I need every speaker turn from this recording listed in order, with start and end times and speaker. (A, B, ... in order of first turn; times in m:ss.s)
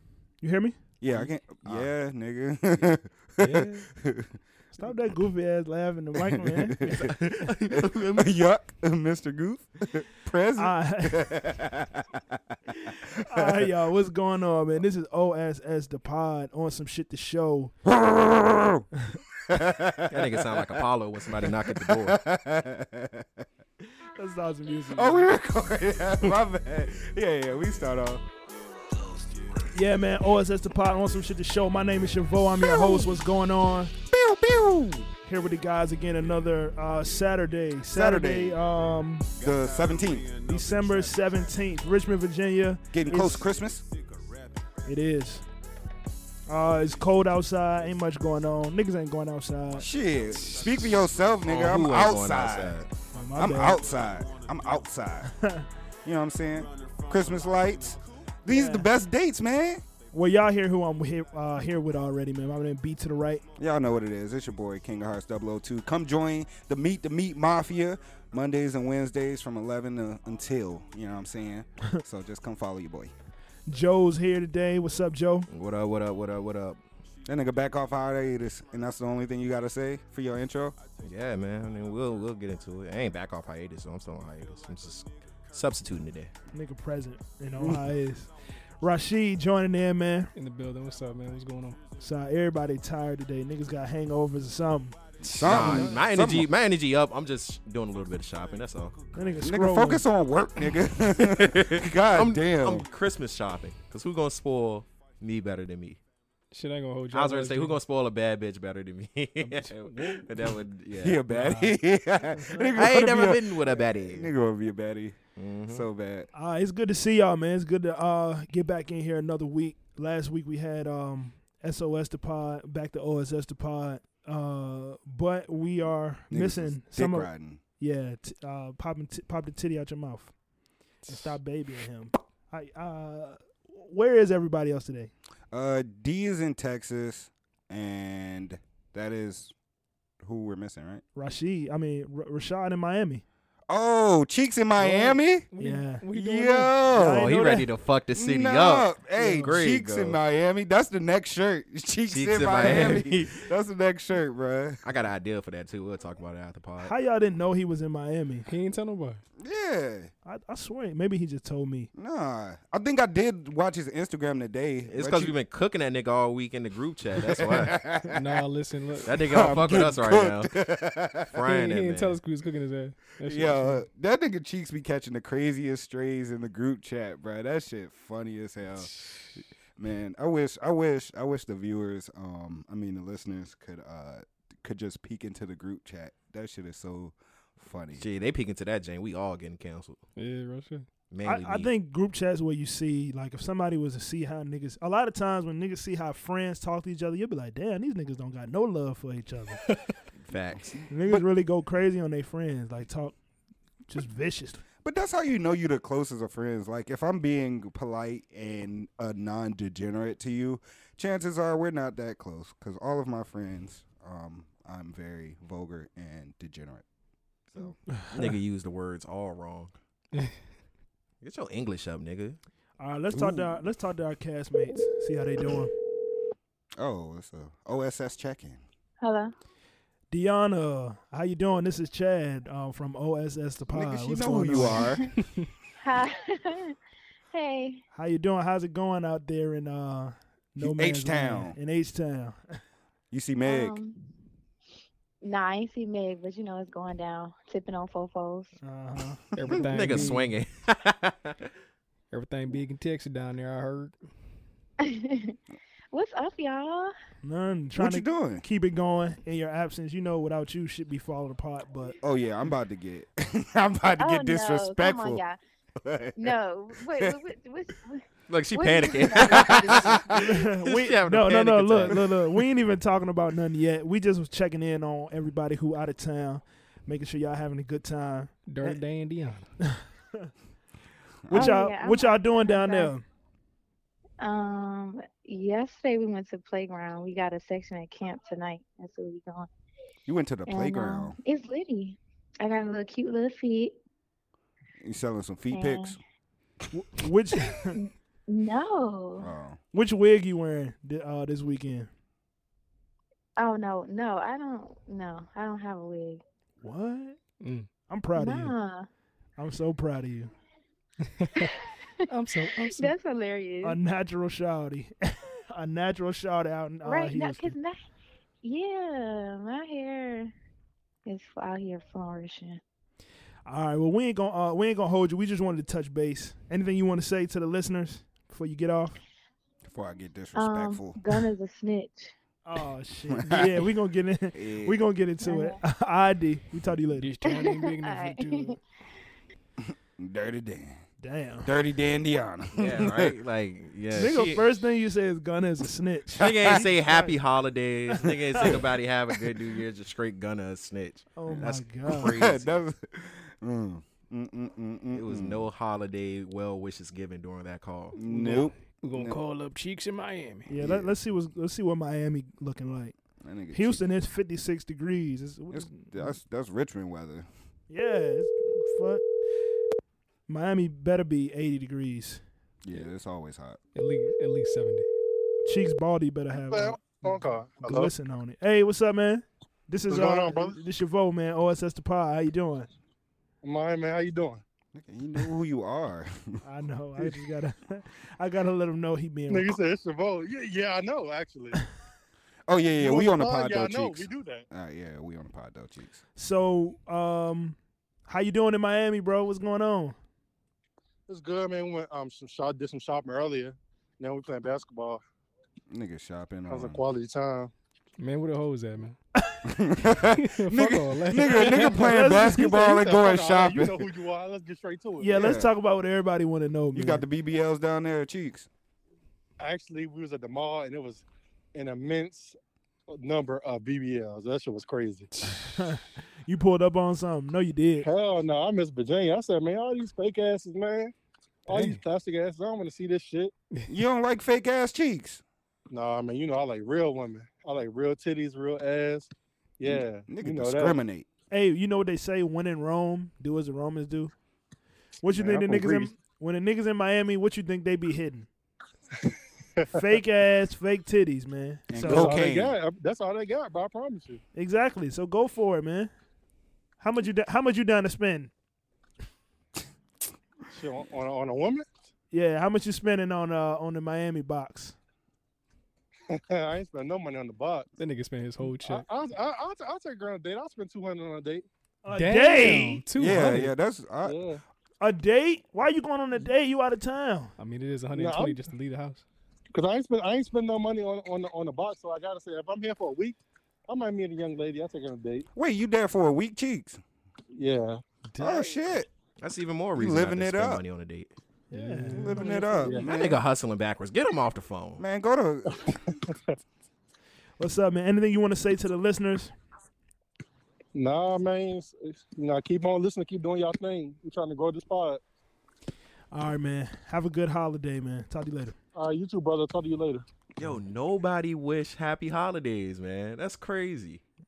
0:00.4-0:00.8 A
0:01.0-0:04.4 B
0:03.4-0:03.7 C
0:04.7-0:06.9 A
0:06.3-0:12.2 B
0:06.8-0:08.3 D
0:10.6-0:11.4 A
0:12.9-0:13.7 B
0:13.3-0:17.7 A
0:17.8-0:18.8 B
0:19.4-0:23.4 B
0:20.1-0:22.2 D
0:24.2-0:25.3 A
0:24.9-0:28.2 B
0:29.7-0:33.9 A
0:32.6-0:33.2 B
0:34.1-0:35.1 B
0:35.2-0:39.3 A
0:37.9-0:38.6 B
0:39.4-0:40.3 B
0:40.4-0:43.4 A
0:42.9-0:43.8 B
0:44.8-0:45.4 A
0:46.5-0:49.9 A
0:49.7-0:52.8 B
0:51.4-0:52.9 D
0:53.1-0:53.8 A
0:53.3-0:55.3 B
0:55.2-0:55.7 A
0:56.0-0:59.8 B
0:58.4-0:58.9 A
1:00.1-1:03.4 A
1:03.6-1:13.1 B
1:13.7-1:15.5 A
1:15.5-1:16.8 D
1:17.2-1:20.8 B
1:21.0-1:26.3 D
1:26.5-1:30.3 A
1:27.6-1:27.9 B
1:30.3-1:31.8 C
1:32.0-1:35.0 A
1:35.2-1:36.5 B
1:35.2-1:35.9 C
1:35.4-1:39.0 D
1:39.1-1:40.0 A
1:39.4-1:42.9 B
1:41.2-1:46.0 D
1:46.5-1:47.8 C
1:47.1-1:51.6 D
1:50.9-1:56.3 B
1:52.4-1:52.7 A
1:52.7-1:54.3 D
1:55.4-1:55.8 D
1:56.3-2:10.3 A
2:06.3-2:07.6 B
2:11.0-2:11.3 C
2:11.1-2:15.1 A
2:15.5-2:19.5 B
2:20.2-2:21.0 B
2:21.1-2:23.2 A
2:23.7-2:25.5 B
2:24.8-2:26.9 C
2:25.6-2:26.0 A
2:26.1-2:27.3 B
2:26.9-2:27.7 A
2:27.1-2:30.2 D
2:28.1-2:34.8 B
2:29.2-2:29.5 A
2:32.1-2:33.4 D
2:34.8-2:36.9 D
2:36.8-2:38.5 A
2:38.4-2:39.2 C
2:39.4-2:40.1 B
2:40.2-2:41.9 A
2:41.9-2:45.3 B
2:44.9-2:47.8 D
2:47.2-2:48.2 B
2:48.1-2:49.2 C
2:49.0-2:50.5 D
2:49.1-2:51.3 B
2:51.3-2:52.2 D
2:51.4-2:53.8 C
2:53.2-3:08.1 B
3:08.0-3:10.0 D
3:10.2-3:10.9 C
3:11.1-3:11.7 D
3:11.2-3:19.6 A
3:20.2-3:21.2 D
3:20.9-3:23.2 A
3:23.9-3:24.6 A
3:24.8-3:36.8 B
3:37.5-3:37.8 B
3:38.1-3:39.7 D
3:41.2-3:42.4 D
3:42.8-3:45.7 A
3:43.1-3:43.6 B
3:46.8-3:48.6 B
3:49.0-3:49.3 E
3:50.1-3:54.9 A
3:53.7-3:55.0 B
3:55.8-3:56.7 E
3:57.3-3:57.8 E
3:57.9-4:02.4 A
4:00.6-4:01.6 B
4:03.1-4:03.8 B
4:03.4-4:04.0 E
4:05.2-4:08.5 E
4:08.6-4:09.2 A
4:09.4-4:10.4 C
4:09.7-4:11.4 D
4:12.1-4:13.9 C
4:14.8-4:15.4 E
4:15.9-4:16.9 E
4:17.2-4:22.0 A
4:17.8-4:18.4 B
4:22.0-4:25.2 B
4:24.0-4:25.4 E
4:25.8-4:27.2 B
4:26.2-4:30.2 E
4:28.3-4:30.0 D
4:29.2-4:29.9 B
4:30.1-4:38.8 A
4:30.6-4:32.1 D
4:38.4-4:39.4 C
4:39.7-4:40.3 A
4:41.2-4:41.6 B
4:41.3-4:43.0 A
4:41.3-4:42.9 E
4:44.2-4:49.5 E
4:50.0-4:51.2 B
4:50.5-4:53.8 E
4:54.8-4:56.0 B
4:55.5-4:56.0 E
4:56.7-4:57.8 A
4:57.7-4:59.3 E
4:59.2-4:59.6 B
4:59.7-5:01.9 A
5:03.4-5:06.2 E
5:06.6-5:07.2 A
5:07.4-5:07.7 C
5:07.9-5:08.5 A
5:08.1-5:08.9 E
5:09.4-5:10.3 A
5:11.2-5:11.5 C
5:12.1-5:12.9 C
5:12.7-5:13.8 E
5:13.6-5:17.5 A
5:16.8-5:17.8 E
5:18.4-5:20.3 E
5:21.0-5:22.6 E
5:23.4-5:29.0 A
5:29.6-5:31.2 B
5:30.3-5:32.1 E
5:32.4-5:37.1 A
5:33.1-5:33.7 B
5:34.3-5:34.8 B
5:35.2-5:35.6 E
5:36.9-5:38.6 C
5:37.2-5:38.6 E
5:39.6-5:40.8 B
5:41.0-5:41.5 A
5:41.4-5:43.1 B
5:42.6-5:44.5 D
5:43.9-5:47.2 A
5:46.2-5:52.6 D
5:46.2-5:46.6 B
5:48.0-5:48.6 A
5:51.2-5:52.1 A
5:51.3-5:55.5 B
5:54.9-5:58.0 D
5:58.0-5:59.2 B
5:58.0-6:00.5 C
6:00.5-6:03.0 A
6:00.6-6:00.9 B
6:03.2-6:03.8 B
6:03.5-6:06.1 A
6:05.5-6:07.3 B
6:07.7-6:09.1 A
6:10.3-6:12.2 A
6:12.6-6:13.6 B
6:13.7-6:14.9 C
6:15.4-6:22.7 A
6:16.5-6:17.9 F
6:19.9-6:20.6 F
6:23.4-6:24.4 F
6:24.7-6:26.4 B
6:26.4-6:29.6 A
6:29.3-6:31.6 F
6:32.5-6:36.0 B
6:32.8-6:34.4 F
6:36.2-6:40.0 A
6:41.1-6:45.0 F
6:45.7-6:46.8 B
6:46.5-6:47.5 F
6:48.0-6:49.0 C
6:49.4-6:53.9 B
6:50.1-6:51.8 C
6:51.4-6:52.7 A
6:52.4-6:55.2 F
6:55.0-6:57.0 A
6:55.1-6:55.5 B
6:56.7-6:58.5 B
6:59.4-7:02.4 F
7:02.9-7:05.1 F
7:05.2-7:05.5 C
7:05.3-7:07.9 A
7:07.8-7:10.9 F
7:11.5-7:13.3 F
7:11.5-7:11.8 C
7:13.7-7:15.2 B
7:15.7-7:20.8 F
7:19.6-7:21.1 B
7:21.3-7:24.1 A
7:25.0-7:28.3 A
7:25.2-7:25.8 F
7:29.7-7:32.2 A
7:31.7-7:32.6 B
7:31.8-7:34.2 F
7:34.3-7:35.9 A
7:36.8-7:38.3 A
7:40.5-7:41.7 F
7:42.1-7:44.8 A
7:46.1-7:47.7 F
7:47.8-7:48.8 C
7:48.6-7:51.4 F
7:51.8-7:53.4 A
7:51.9-7:53.5 C
7:52.9-7:54.2 B
7:54.0-7:54.4 F
7:54.8-7:57.3 A
7:57.4-7:59.0 C
7:57.9-7:58.4 F
7:59.5-8:05.2 F
8:05.3-8:06.8 B
8:07.3-8:07.8 F
8:08.1-8:08.6 C
8:08.2-8:08.9 B
8:09.2-8:11.1 D
8:09.8-8:10.6 B
8:11.5-8:12.8 A
8:11.5-8:12.3 C
8:11.9-8:13.2 B
8:12.6-8:12.9 F
8:12.8-8:14.8 D
8:14.8-8:15.8 B
8:15.6-8:16.2 F
8:17.4-8:19.3 A
8:20.7-8:25.0 F
8:26.1-8:28.6 A
8:28.7-8:30.0 F
8:30.4-8:34.0 D